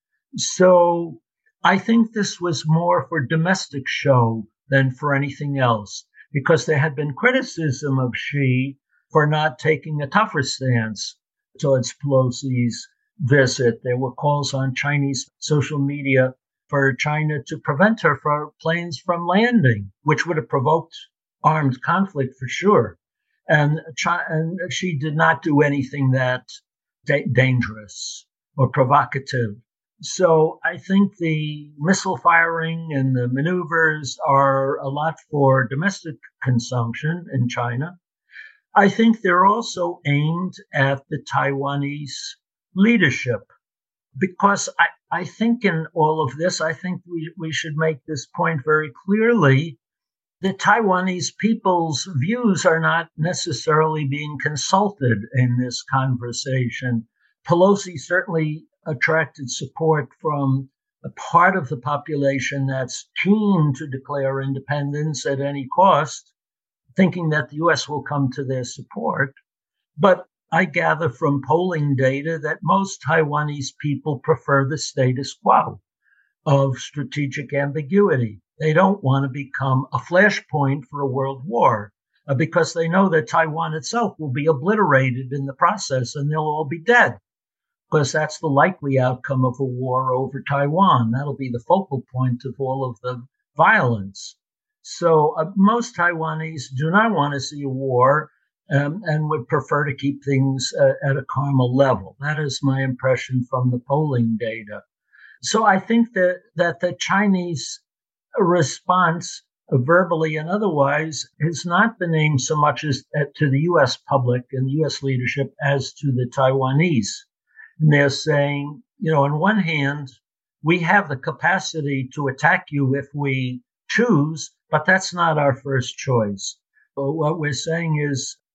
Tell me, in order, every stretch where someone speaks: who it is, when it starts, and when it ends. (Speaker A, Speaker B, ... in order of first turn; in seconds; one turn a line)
Speaker A: 0.3-23.0
Speaker A: 23.5-26.4
Speaker A: 27.1-38.0
Speaker A: 38.7-43.5
Speaker A: 44.2-49.8
Speaker A: 50.4-66.3
Speaker A: 67.0-69.3
Speaker A: 70.0-75.8
Speaker A: 76.5-87.2
Speaker A: 87.9-104.8
Speaker A: 105.4-107.8
Speaker A: 108.4-117.2
Speaker A: 117.8-120.1
Speaker A: 120.6-128.4